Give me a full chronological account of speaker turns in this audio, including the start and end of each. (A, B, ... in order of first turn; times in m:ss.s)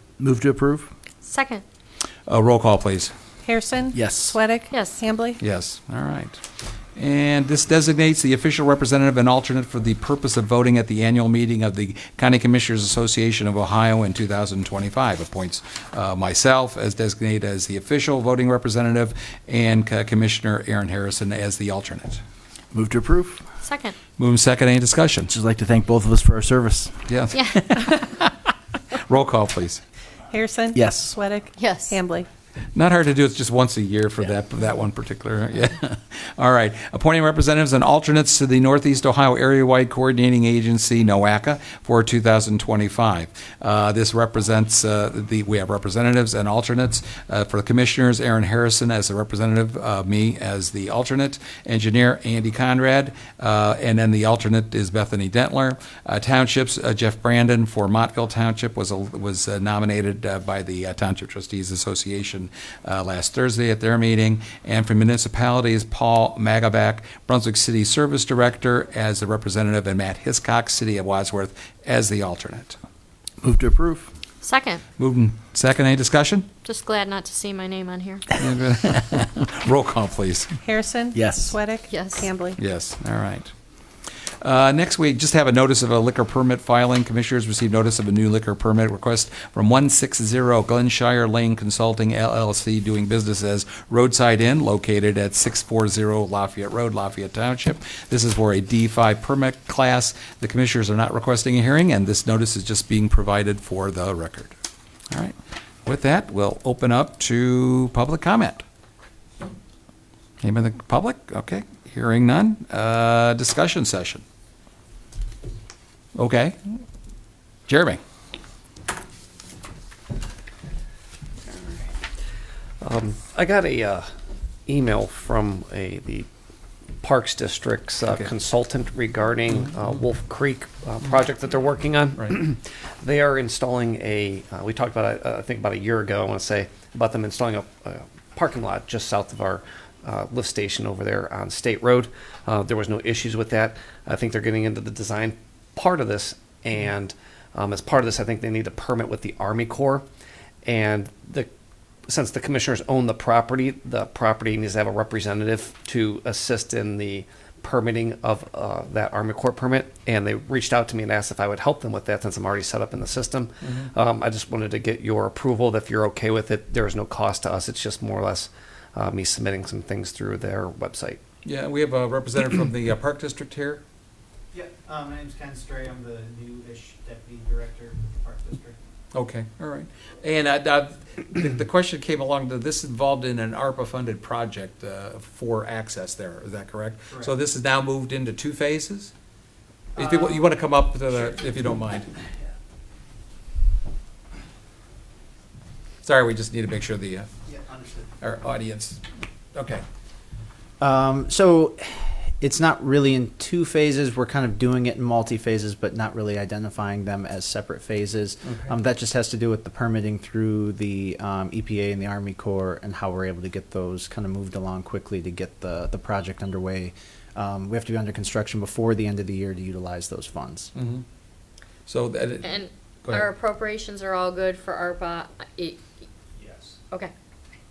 0:00.2-0:00.9 A
0:01.2-0:01.6 B
0:02.3-0:03.1 C
0:03.4-0:05.4 D
0:03.9-0:04.4 A
0:04.7-0:05.0 B
0:05.4-0:06.4 C
0:07.0-0:22.2 C
0:22.7-0:23.4 A
0:23.6-0:24.0 B
0:24.2-0:25.3 C
0:25.3-0:27.0 A
0:27.1-0:28.3 C
0:27.3-0:27.9 B
0:28.9-0:29.8 C
0:30.3-0:32.3 D
0:30.7-0:31.1 A
0:31.6-0:32.0 B
0:32.7-1:12.8 C
1:13.4-1:14.1 A
1:14.4-1:14.8 B
1:15.0-1:16.5 C
1:16.6-1:18.3 B
1:18.4-1:20.5 C
1:20.6-1:22.6 D
1:21.1-1:21.5 A
1:21.9-1:22.3 B
1:22.6-1:23.5 C
1:24.4-1:44.6 C
1:45.1-1:48.6 C
1:50.4-1:54.2 C
1:56.2-1:56.6 C
1:57.7-1:58.0 C
2:01.5-2:01.9 E
2:02.8-2:04.1 E
2:04.7-2:06.3 E
2:07.0-2:30.0 E
2:30.6-2:31.5 E
2:32.1-2:51.2 E
2:43.6-2:43.9 C
2:51.4-2:53.8 C
2:54.5-2:58.8 F
2:59.1-3:09.1 C
3:09.9-3:10.4 F
3:10.0-3:12.1 C
3:16.0-3:17.3 C
3:17.4-3:18.1 F
3:18.2-3:19.0 C
3:19.5-3:19.8 C
3:20.8-3:40.7 F
3:40.7-3:41.0 C
3:41.8-3:43.3 C
3:42.4-3:45.8 B